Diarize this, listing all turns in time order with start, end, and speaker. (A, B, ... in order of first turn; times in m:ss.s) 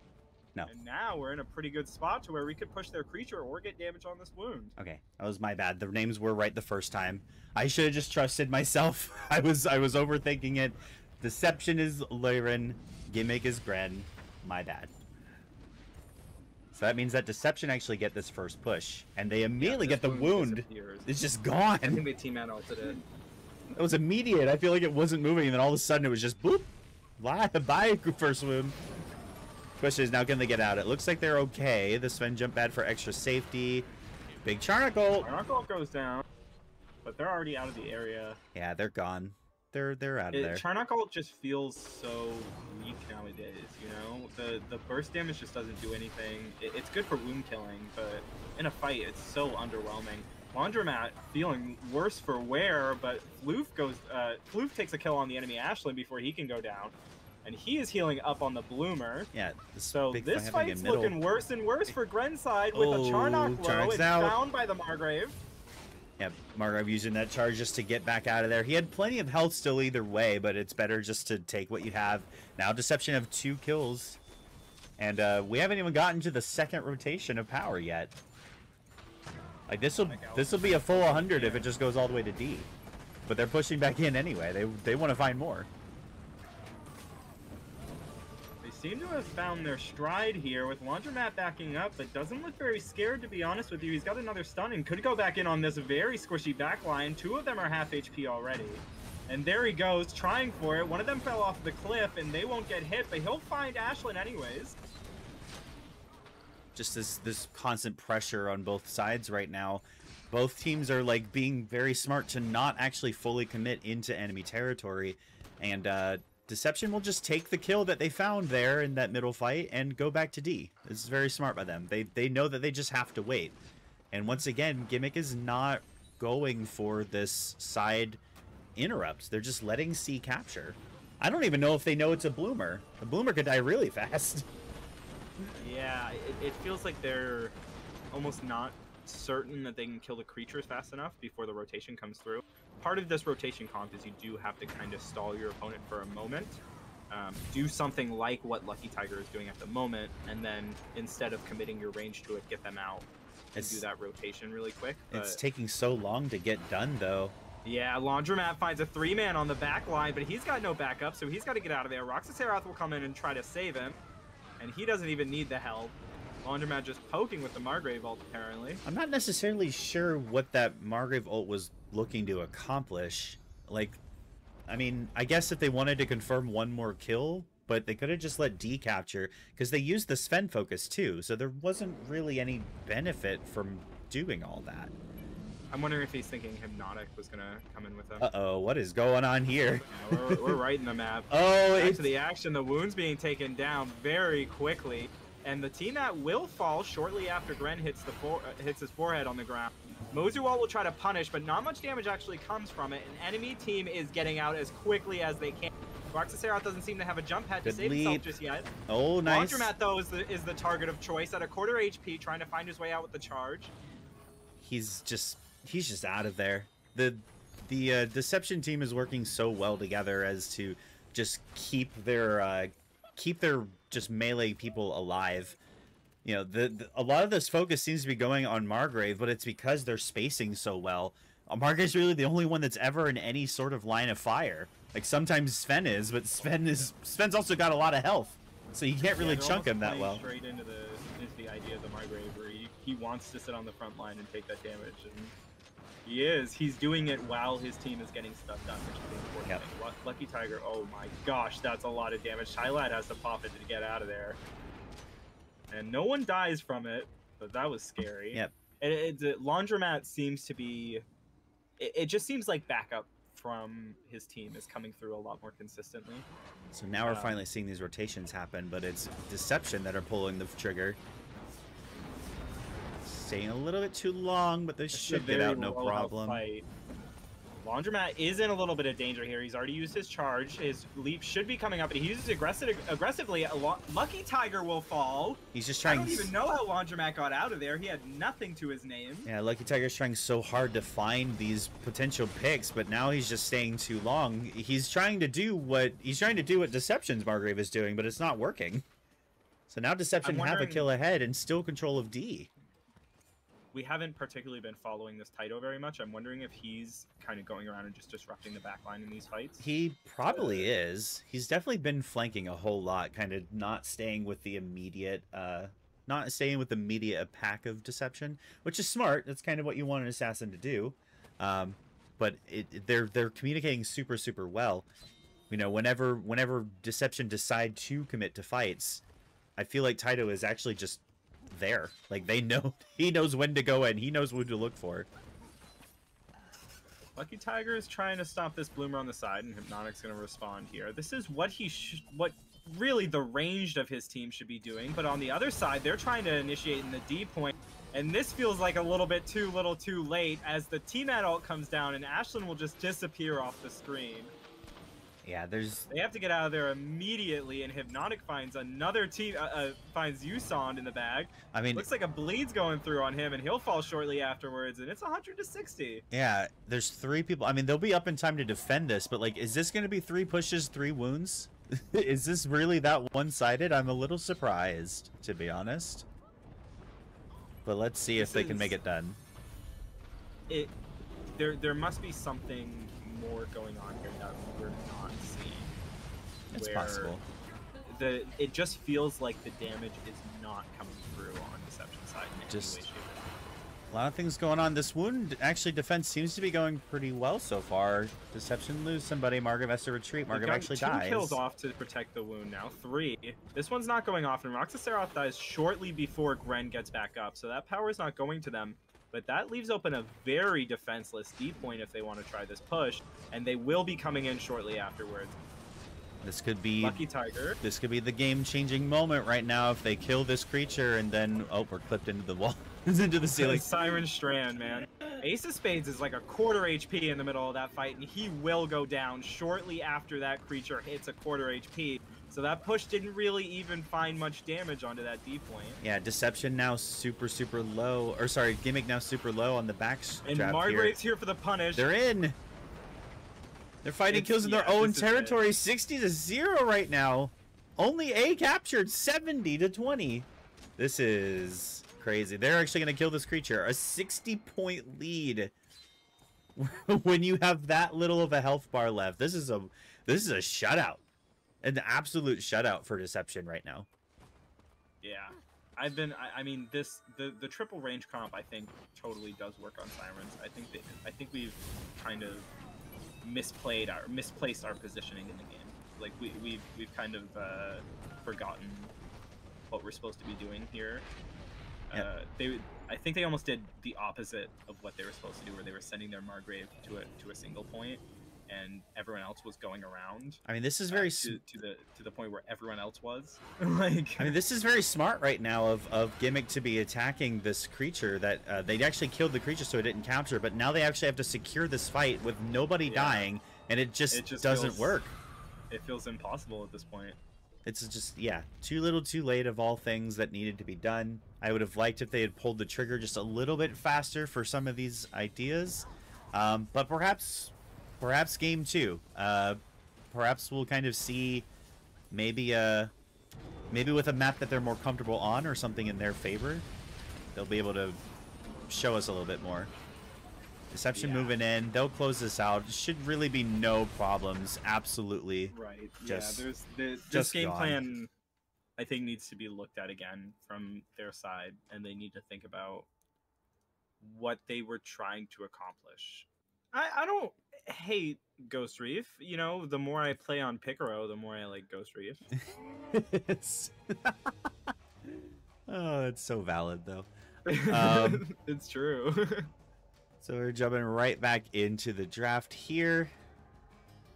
0:00.7-0:04.7 A
0:04.8-0:14.9 B
0:16.7-0:22.0 B
0:19.6-0:21.1 A
0:21.8-0:23.0 A
0:23.7-0:28.8 B
0:29.8-0:33.9 B
0:34.4-0:35.3 B
0:35.2-0:36.2 A
0:37.0-0:38.4 A
0:38.5-0:40.6 B
0:40.3-0:59.3 A
0:59.3-1:01.2 B
0:59.9-1:05.4 A
1:02.7-1:04.4 B
1:06.2-1:14.2 B
1:15.0-1:18.1 B
1:19.7-1:22.7 B
1:20.0-1:21.7 A
1:23.3-1:25.7 B
1:28.6-1:44.8 A
1:46.7-2:03.6 B
2:04.1-2:08.2 B
2:08.8-2:14.5 B
2:15.6-2:17.6 A
2:18.1-2:26.6 A
2:27.1-2:35.4 A
2:33.5-2:33.8 B
2:35.1-2:37.4 B
2:37.6-2:44.0 A
2:44.6-2:48.8 A
2:48.8-2:54.0 B
2:54.7-3:04.9 B
3:05.7-3:08.3 A
3:08.2-3:10.6 B
3:09.9-3:28.7 A
3:11.3-3:12.1 B
3:27.6-3:28.3 B
3:28.9-3:29.7 B
3:29.2-3:33.7 A
3:34.6-3:45.6 B
3:46.2-4:00.2 B
3:59.2-4:05.3 A
4:06.0-4:14.4 A
4:15.7-4:21.0 A
4:21.8-4:26.3 A
4:26.7-4:31.0 B
4:27.0-4:27.3 A
4:33.0-4:36.4 B
4:34.9-4:36.6 A
4:37.6-4:49.3 A
4:45.5-4:46.3 B
4:49.2-4:58.8 B
4:59.7-5:02.5 B
5:00.2-5:00.9 A
5:03.7-5:09.6 A
5:09.6-5:24.9 B
5:10.2-5:10.7 A
5:25.5-5:29.0 B
5:29.6-5:35.1 B
5:37.2-5:54.3 A
5:55.2-5:55.9 B
5:55.9-6:06.0 A
6:01.5-6:01.9 B
6:06.1-6:16.0 B
6:17.6-6:19.2 B
6:18.2-6:18.8 A
6:20.5-6:20.7 A
6:21.4-6:25.8 A
6:26.5-6:27.2 B
6:26.5-6:27.1 A
6:27.8-6:33.3 A
6:32.5-6:32.8 B
6:33.9-6:41.4 B
6:40.3-6:55.3 A
6:56.2-6:57.0 B
6:56.8-6:57.6 A
6:57.6-7:03.6 B
7:03.4-7:15.8 A
7:15.8-7:21.0 B
7:20.2-7:21.9 A
7:21.7-7:22.4 B
7:23.8-7:30.3 B
7:24.1-7:25.4 A
7:30.8-7:35.5 B
7:36.6-7:41.0 B
7:41.6-7:43.9 B
7:45.0-7:52.5 A
7:53.2-7:58.9 A
7:59.7-8:01.0 A
8:01.9-8:14.4 A
8:10.4-8:11.4 B
8:14.2-8:25.1 B
8:22.9-8:23.3 A
8:24.1-8:25.0 A
8:25.7-8:27.2 A
8:27.6-8:39.6 B
8:40.1-8:41.5 B
8:42.1-8:42.9 B
8:43.7-8:46.7 B
8:47.3-8:48.0 B
8:48.7-8:49.7 B
8:50.7-8:55.5 B
8:50.9-8:51.3 A
8:55.5-8:58.1 A
8:56.0-8:56.4 B
8:57.1-8:58.0 B
8:58.8-9:02.9 A
9:04.0-9:12.2 A
9:12.3-9:14.5 B
9:15.0-9:17.1 B
9:17.4-9:19.5 A
9:17.6-9:18.2 B
9:20.2-9:23.1 B